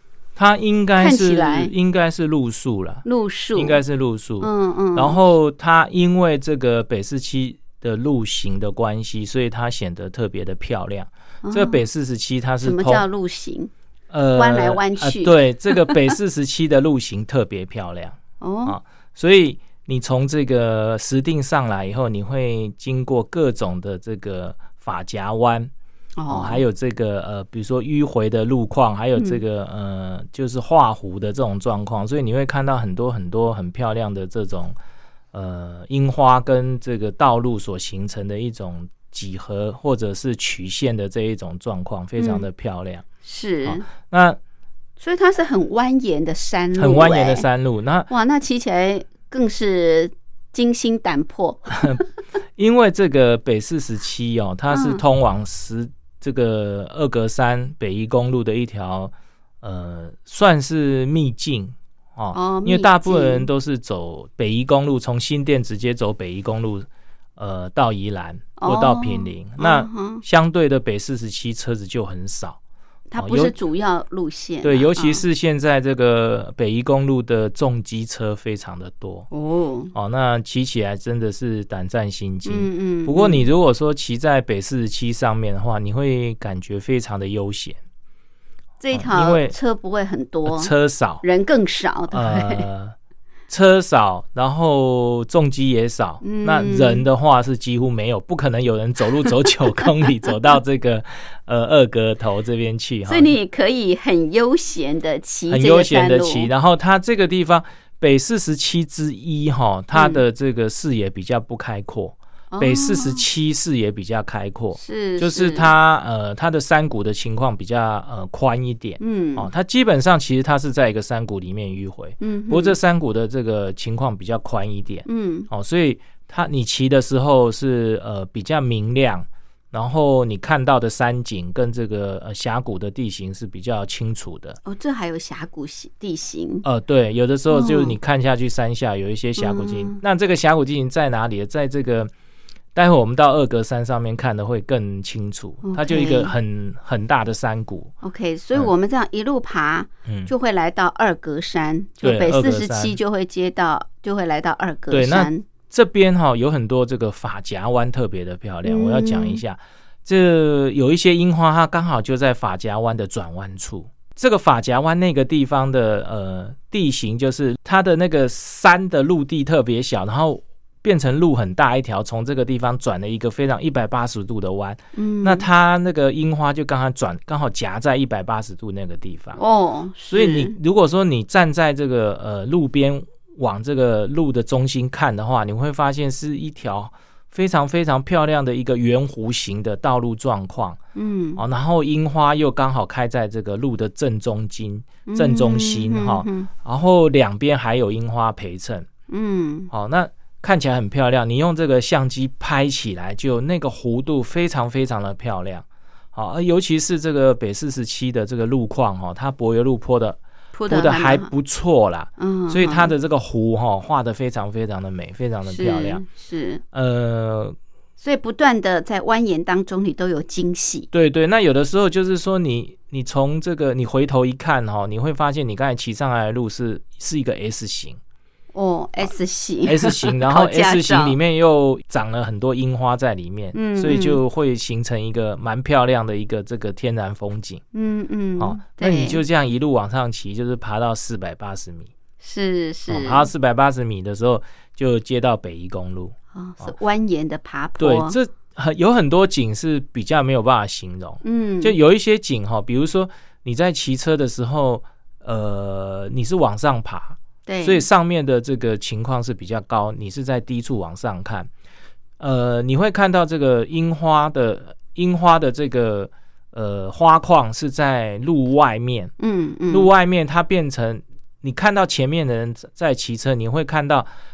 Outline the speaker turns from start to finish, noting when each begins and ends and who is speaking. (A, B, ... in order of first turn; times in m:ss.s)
0:00.4-0:13.0 A
0:01.0-0:01.7 B
0:03.0-0:03.8 B
0:04.4-0:05.2 B
0:11.4-0:11.8 B
0:12.6-0:13.7 B
0:14.1-0:25.7 A
0:14.3-0:16.0 B
0:18.4-0:18.8 B
0:26.2-0:26.6 B
0:26.3-0:34.8 A
0:29.2-0:29.4 B
0:35.3-0:43.1 A
0:42.2-0:42.5 B
0:43.2-0:43.8 B
0:43.6-0:44.4 A
0:45.0-0:47.5 B
0:46.8-0:48.1 A
0:48.1-0:52.1 B
0:52.6-1:12.6 A
0:54.7-0:55.0 B
1:02.3-1:03.5 B
1:08.6-1:10.2 B
1:13.1-1:15.2 B
1:13.2-1:13.5 A
1:14.6-1:19.3 A
1:19.3-1:19.9 B
1:19.9-1:27.8 A
1:22.5-1:23.5 B
1:28.8-1:32.7 B
1:28.9-1:29.6 A
1:30.5-1:31.2 A
1:32.1-1:32.9 A
1:33.5-1:43.3 A
1:36.2-1:37.1 B
1:43.1-1:46.5 B
1:45.5-2:14.6 A
1:49.9-1:50.2 B
1:52.5-1:53.3 B
1:54.8-1:55.7 B
1:59.0-1:59.5 B
2:02.2-2:02.8 B
2:05.1-2:05.5 B
2:14.6-2:16.6 B
2:16.6-2:22.1 A
2:17.5-2:18.0 B
2:19.4-2:20.0 B
2:22.8-2:27.9 A
2:25.6-2:26.3 B
2:28.0-2:35.4 B
2:30.1-2:30.3 A
2:32.0-2:33.0 A
2:34.9-2:59.4 A
2:38.6-2:39.4 B
2:54.9-2:55.5 B
2:59.4-3:00.6 B
3:00.1-3:10.8 A
3:10.9-3:11.4 B
3:11.4-3:18.9 A
3:15.1-3:16.5 B
3:19.1-3:19.7 B
3:19.7-3:36.0 A
3:30.5-3:31.3 B
3:32.2-3:32.9 B
3:35.5-3:36.6 B
3:36.7-3:37.6 A
3:38.0-3:40.9 B
3:40.9-3:48.0 A
3:48.5-3:51.2 B
3:49.6-3:57.6 A
3:53.5-3:54.2 B
3:57.7-3:59.2 B
3:58.4-4:01.9 A
4:02.2-4:03.3 B
4:02.9-4:06.7 A
4:06.3-4:08.2 B
4:07.8-4:21.5 A
4:11.2-4:11.8 B
4:17.5-4:17.9 B
4:22.2-4:29.1 A
4:29.2-4:29.9 B
4:29.7-4:34.1 A